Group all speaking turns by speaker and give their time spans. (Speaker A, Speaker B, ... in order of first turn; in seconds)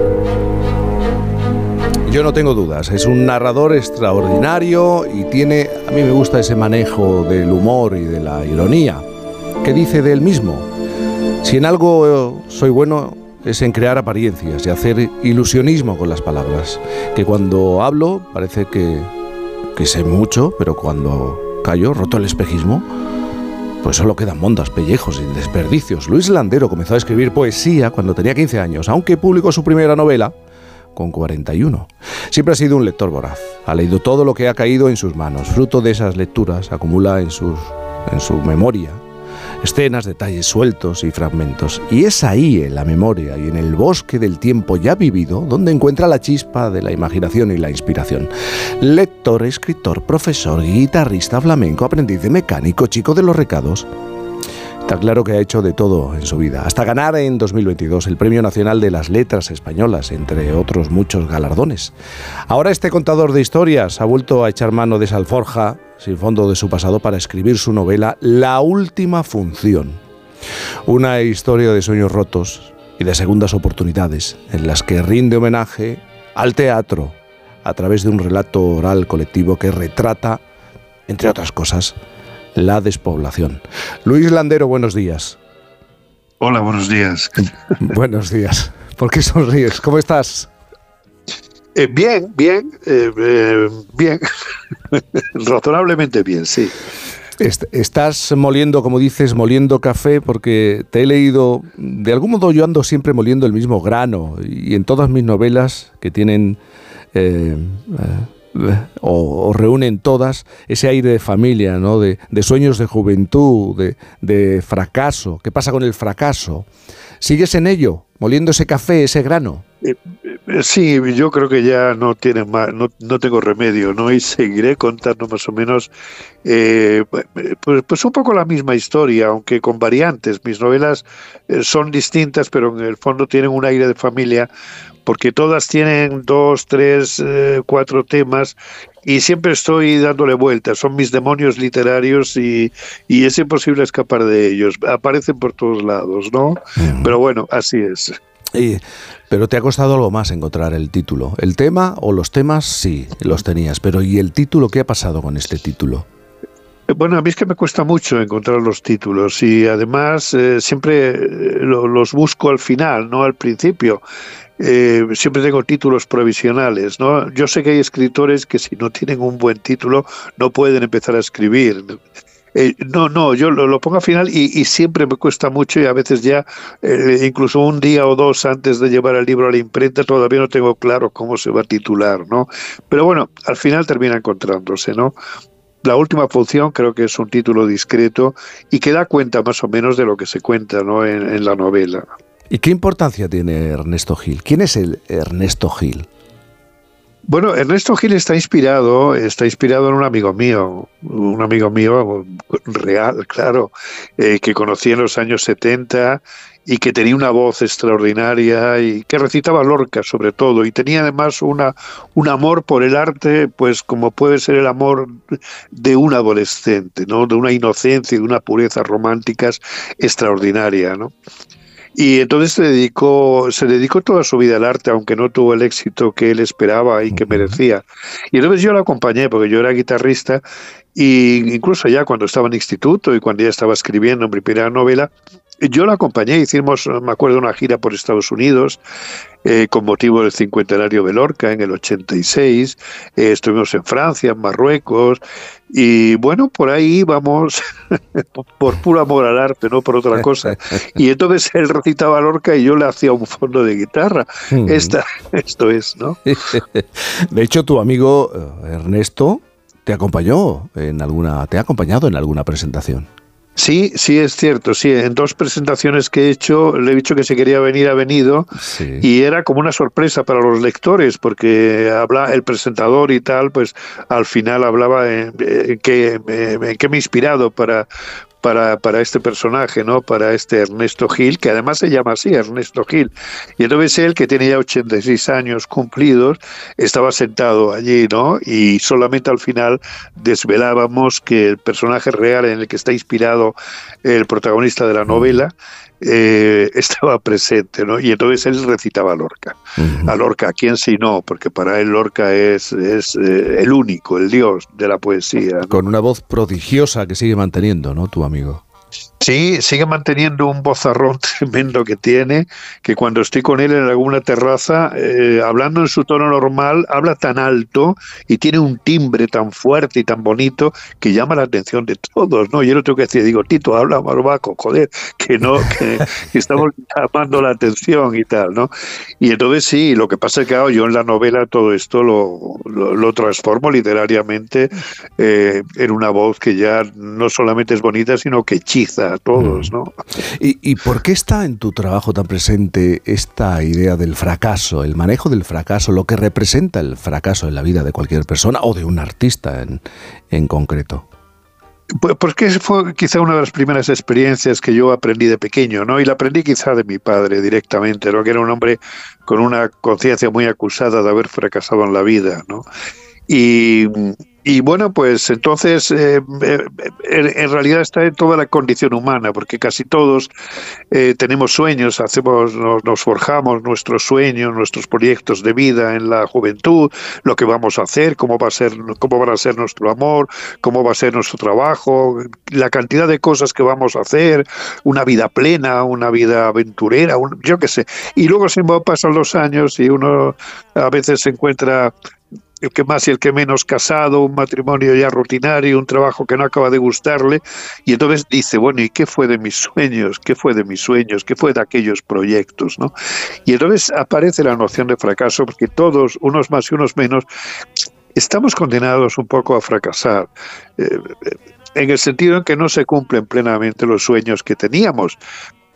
Speaker A: 2.0-9.0, 9.6-10.7, 11.4-19.1, 19.8-22.9, 23.8-30.3, 30.9-39.0, 39.6-53.9, 54.9-61.9, 62.5-70.0, 70.8-80.4, 81.1-82.0, 82.5-85.4, 87.8-90.5, 97.4-106.6, 107.1-116.7, 117.2-119.6, 146.8-147.2, 148.5-156.1, 192.5-196.1, 227.2-227.5, 254.5-254.9, 256.3-263.1, 268.6-269.1, 299.8-300.1, 305.7-308.6, 339.4-339.7, 340.4-351.1
Speaker B: 86.4-87.5, 91.7-94.2, 94.9-96.8, 119.8-125.9, 126.4-134.5, 135.1-148.2, 156.9-164.0, 164.6-172.0, 172.5-185.1, 185.8-192.1, 197.3-221.1, 221.9-230.4, 230.9-238.8, 239.4-256.2, 263.6-268.5, 269.0-277.9, 278.4-305.8, 309.2-340.0, 352.0-362.6, 363.3-370.3, 370.9-391.9, 392.6-402.9, 403.4-407.2, 408.1-415.2